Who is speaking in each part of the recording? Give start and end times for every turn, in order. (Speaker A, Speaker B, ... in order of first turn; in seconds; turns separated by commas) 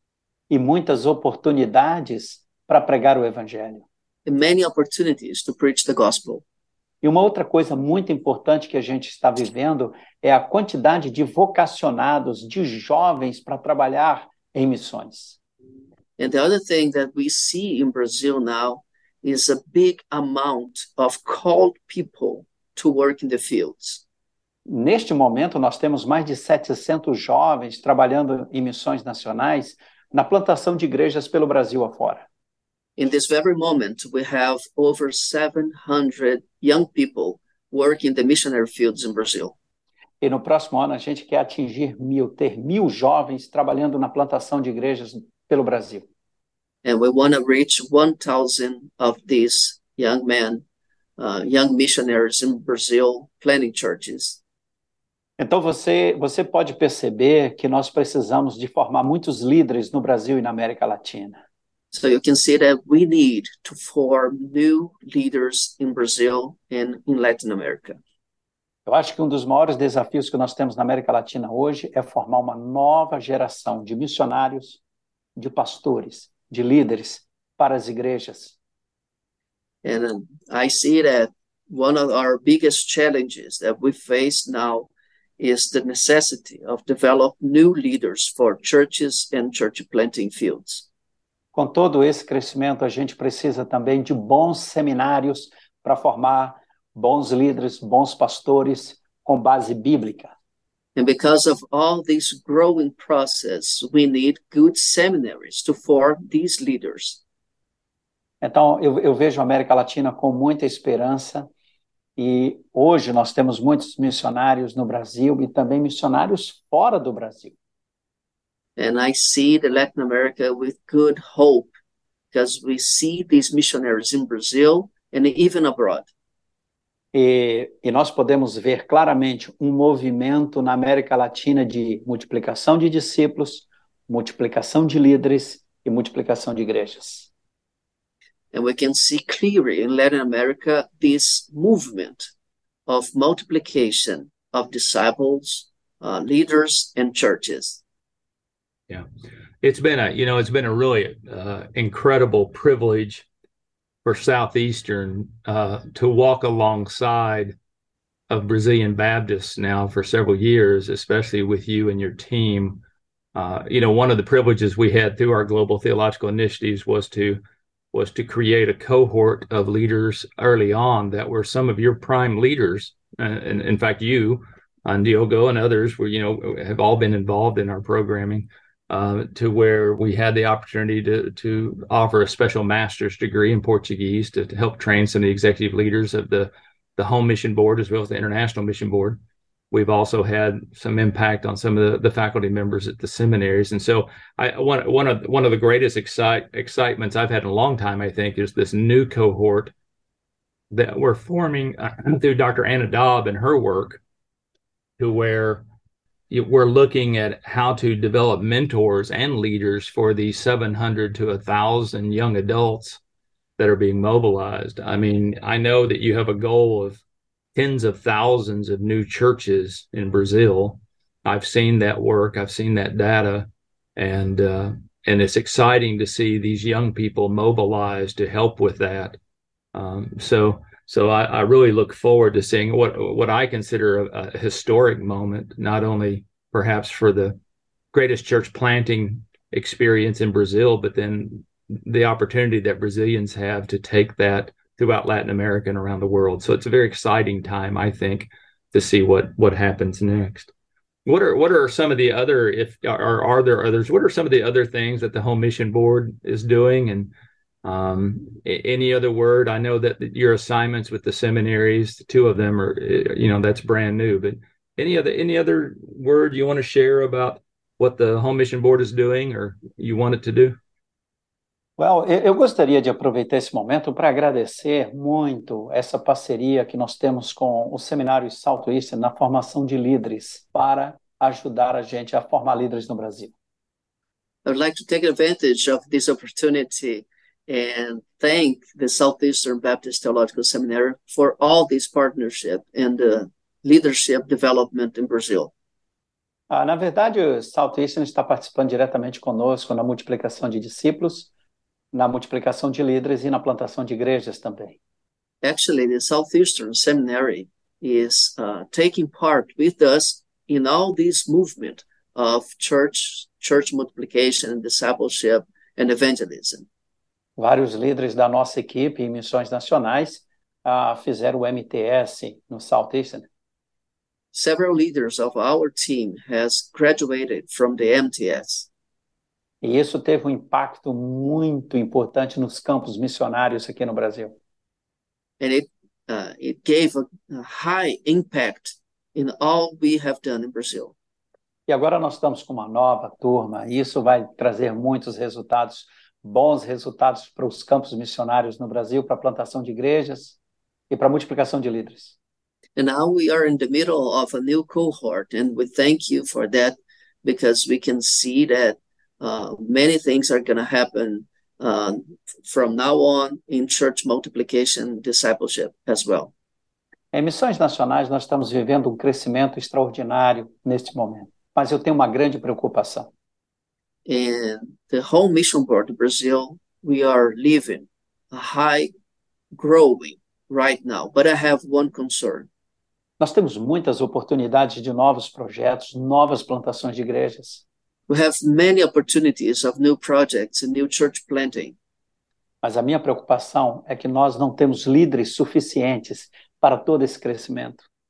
Speaker A: 0.5-3.8, Speaker B: 4.2-6.4, Speaker A: 7.0-15.4, Speaker B: 16.2-24.0, Speaker A: 24.6-32.2, Speaker B: 33.0-39.5, Speaker A: 40.2-46.0, Speaker B: 46.8-50.6, Speaker B: 51.2-54.4, Speaker A: 55.4-61.4, Speaker B: 61.9-68.0, Speaker A: 68.8-74.8, Speaker A: 75.3-78.5, Speaker B: 79.8-90.8, Speaker A: 91.5-100.3, Speaker B: 101.0-107.2, Speaker A: 108.4-111.5, Speaker A: 112.2-117.5, Speaker B: 118.8-121.7, Speaker B: 122.3-126.1, Speaker A: 127.1-137.3, Speaker B: 138.5-142.3, Speaker B: 142.9-147.8, Speaker C: 149.6-153.2, Speaker C: 154.0-157.6, Speaker C: 158.3-162.8, Speaker C: 163.3-167.4, Speaker C: 167.9-189.2, Speaker C: 189.7-199.7, Speaker C: 200.7-204.0, Speaker C: 205.0-205.6, Speaker C: 206.3-213.0, Speaker C: 213.6-217.0, Speaker C: 217.5-229.2, Speaker C: 229.7-237.4, Speaker C: 237.9-250.5, Speaker C: 251.1-257.1, Speaker C: 257.6-270.6, Speaker A: 271.8-283.3, Speaker B: 284.4-295.5, Speaker A: 296.5-301.3, Speaker A: 301.9-304.8, Speaker B: 305.4-316.6, Speaker A: 317.4-323.3, Speaker B: 324.3-328.7, Speaker A: 329.6-334.3, Speaker B: 335.4-340.9, Speaker A: 341.7-350.4, Speaker A: 350.9-352.1, Speaker B: 352.8-366.3, Speaker A: 367.1-373.1, Speaker B: 374.1-378.9, Speaker B: 379.5-382.5, Speaker A: 383.2-387.6, Speaker B: 388.1-391.8, Speaker A: 392.6-397.8